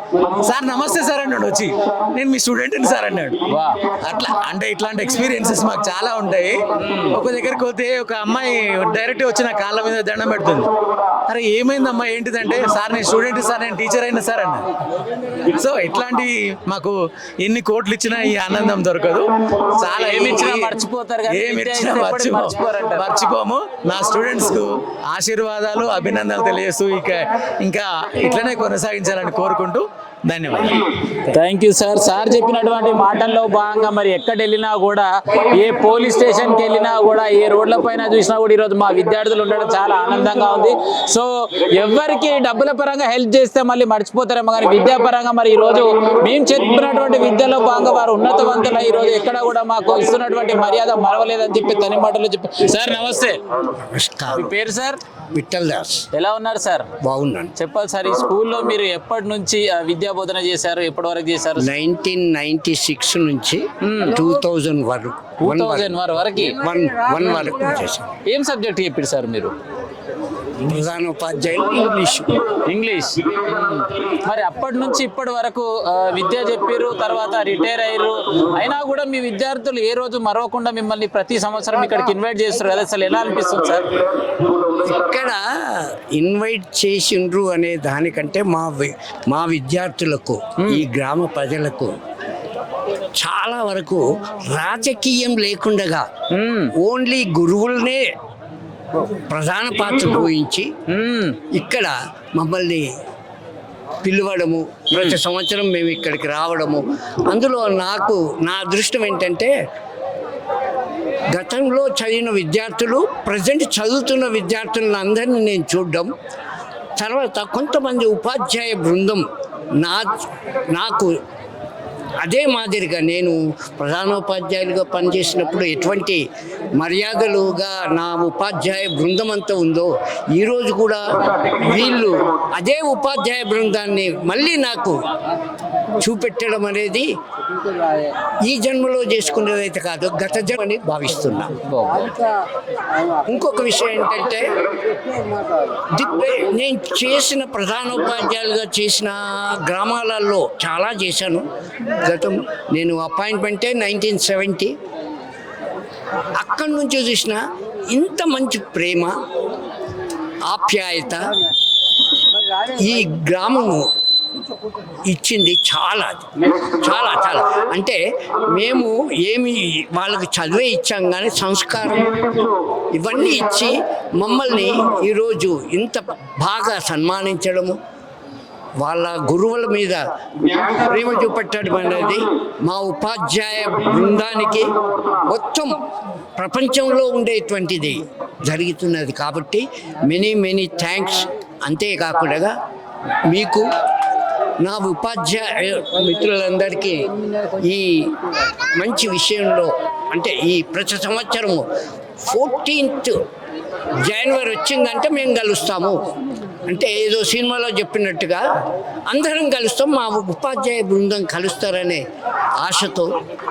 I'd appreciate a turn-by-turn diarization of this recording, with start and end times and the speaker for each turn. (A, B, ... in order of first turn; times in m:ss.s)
0:00.4-0:03.4 A
0:03.5-0:03.8 B
0:04.0-0:06.6 A
0:06.8-0:07.2 B
0:07.1-0:10.7 A
0:11.3-0:14.7 A
0:15.5-0:20.7 A
0:19.9-0:23.2 B
0:21.3-0:30.7 A
0:31.3-0:53.4 B
0:53.9-0:54.5 C
0:54.3-0:55.0 B
0:55.3-0:56.0 C
0:56.1-0:56.9 B
0:57.0-0:57.5 C
0:57.6-1:01.7 B
1:01.6-1:08.0 C
1:03.8-1:04.2 B
1:05.4-1:06.6 B
1:07.2-1:07.5 B
1:08.3-1:09.5 B
1:10.6-1:12.4 C
1:12.7-1:23.9 B
1:24.8-1:32.0 C
1:33.1-1:36.1 C
1:36.3-1:36.7 B
1:36.8-1:38.1 C
1:39.3-1:40.7 C
1:40.9-1:41.4 B
1:41.5-1:42.9 C
1:44.0-1:49.5 C
1:51.3-1:56.1 C
1:57.0-1:59.2 C
1:59.8-2:00.1 C
2:00.7-2:01.1 C
2:02.2-2:06.2 C
2:06.8-2:15.0 C
2:16.0-2:17.1 C
2:18.4-2:21.5 C
2:23.2-2:24.5 C
2:25.9-2:31.5 C
2:32.0-2:34.8 C
2:36.3-2:39.1 C
2:40.4-2:41.3 C
2:42.7-2:43.8 C
2:45.0-2:52.2 C
2:52.9-2:57.8 C
2:58.8-3:04.7 C
3:05.3-3:05.8 C
3:06.4-3:12.5 C
3:13.3-3:13.7 C
3:14.6-3:18.1 C
3:18.7-3:21.6 C
3:22.2-3:23.2 C
3:24.0-3:26.0 C
3:26.6-3:28.4 C
3:29.1-3:32.0 C
3:32.6-3:33.1 C